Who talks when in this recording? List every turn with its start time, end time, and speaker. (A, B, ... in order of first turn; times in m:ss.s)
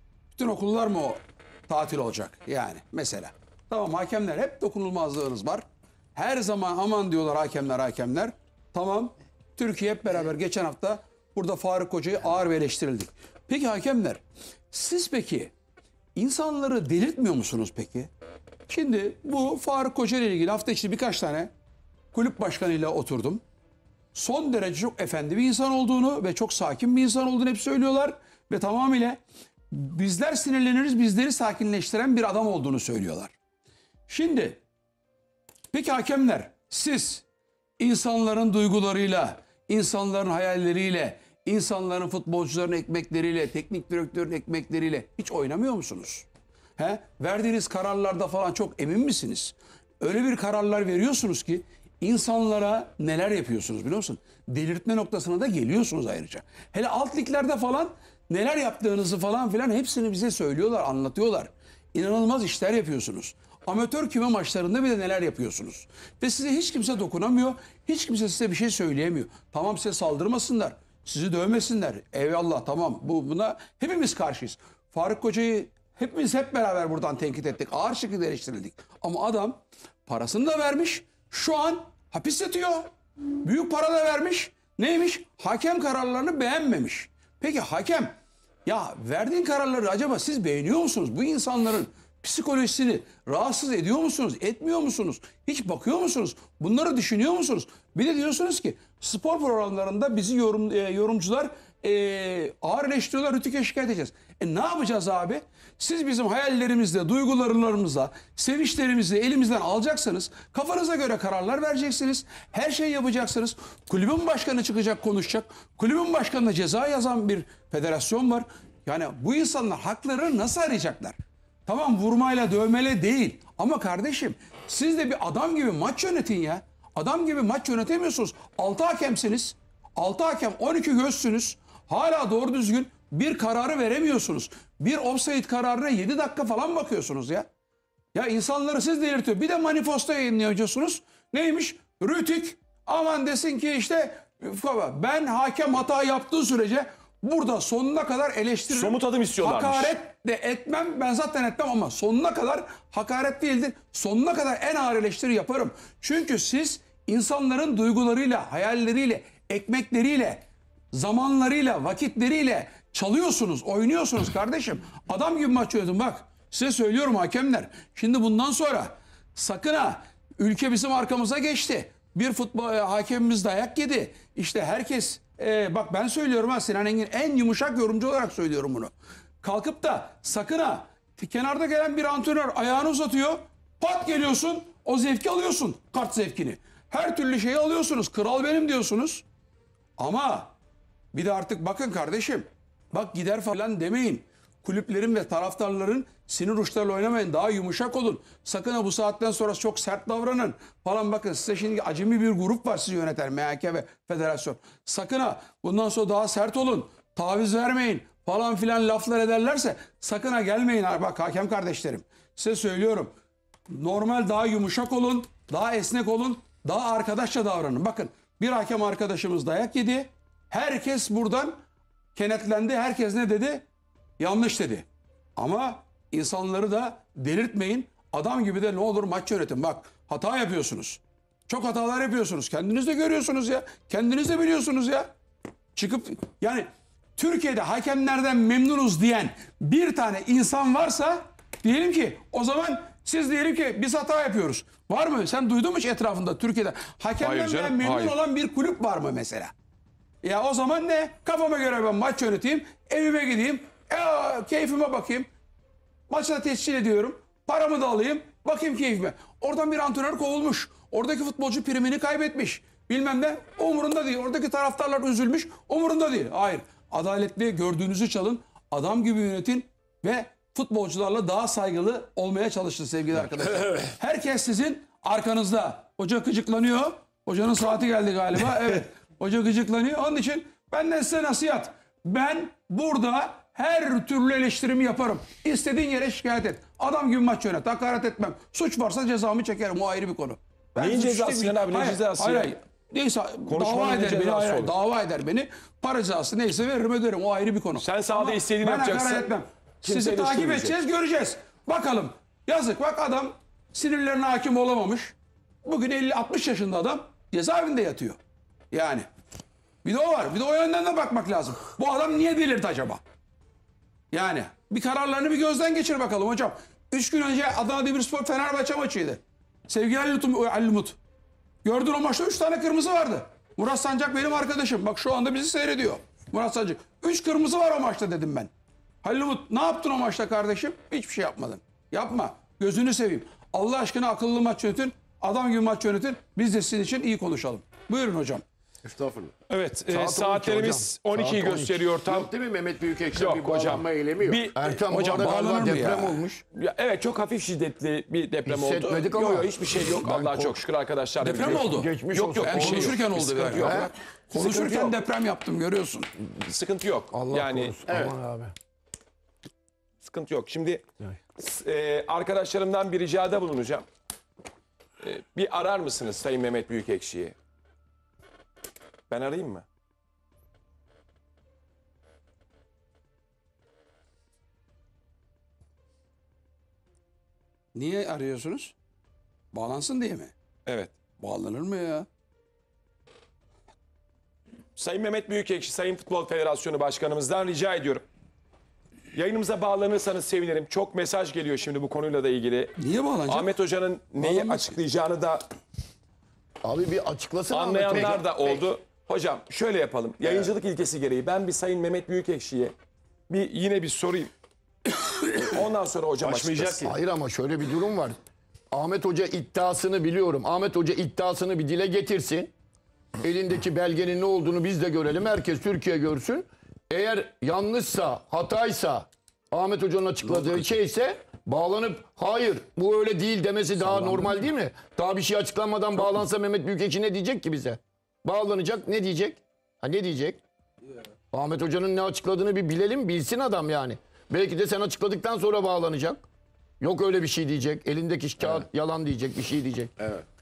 0:00.3-0:15.5 A
0:16.1-0:18.1 A
0:18.7-0:21.5 A
0:22.1-0:23.4 A
0:24.1-0:29.2 A
0:29.7-0:33.3 A
0:34.1-0:34.6 A
0:35.7-0:37.2 A
0:37.8-1:22.9 A
1:23.4-2:17.5 A
2:18.1-3:09.2 A
2:28.7-2:30.0 B
3:10.0-3:10.5 A
3:11.1-3:33.1 A
3:33.7-3:41.6 A
3:42.1-3:43.6 A
3:44.2-3:55.1 A
3:55.7-4:09.5 A
4:07.2-4:08.2 B
4:10.2-4:15.3 A
4:16.1-5:08.2 A
4:33.4-4:33.9 C
4:50.8-4:52.6 B
4:53.5-4:54.7 B
4:57.8-5:00.8 B
5:08.7-5:09.1 A
5:09.8-5:13.0 A
5:14.1-5:21.0 A
5:21.6-5:28.5 A
5:29.0-5:38.4 A
5:38.8-5:39.3 C
5:39.5-5:42.3 B
5:39.9-5:41.8 D
5:42.1-5:44.5 C
5:43.2-5:45.5 B
5:44.5-5:46.4 D
5:44.9-5:46.2 A
5:46.5-5:55.0 B
5:48.4-5:50.6 D
5:51.2-5:51.9 A
5:51.4-5:53.9 D
5:52.4-5:56.1 A
5:56.4-5:57.8 B
5:57.1-5:58.5 D
5:57.9-5:58.1 C
6:00.0-6:00.8 B
6:01.4-6:03.8 B
6:05.0-6:07.4 B
6:09.1-6:09.6 B
6:17.7-6:18.7 A
6:19.5-6:20.3 A
6:20.6-6:20.9 B
6:21.2-6:22.1 A
6:24.8-6:28.0 B
6:29.1-6:35.4 B
6:32.8-6:33.5 A
6:34.2-6:34.8 A
6:36.6-6:38.4 D
6:37.5-6:42.7 B
6:40.2-6:40.5 C
6:43.3-6:44.3 B
6:45.2-6:46.8 B
6:46.2-6:46.9 C
6:46.8-6:48.2 D
6:48.7-6:52.5 D
6:53.2-7:10.4 D
7:11.3-7:16.2 D
7:16.8-7:19.9 D
7:20.0-7:20.2 C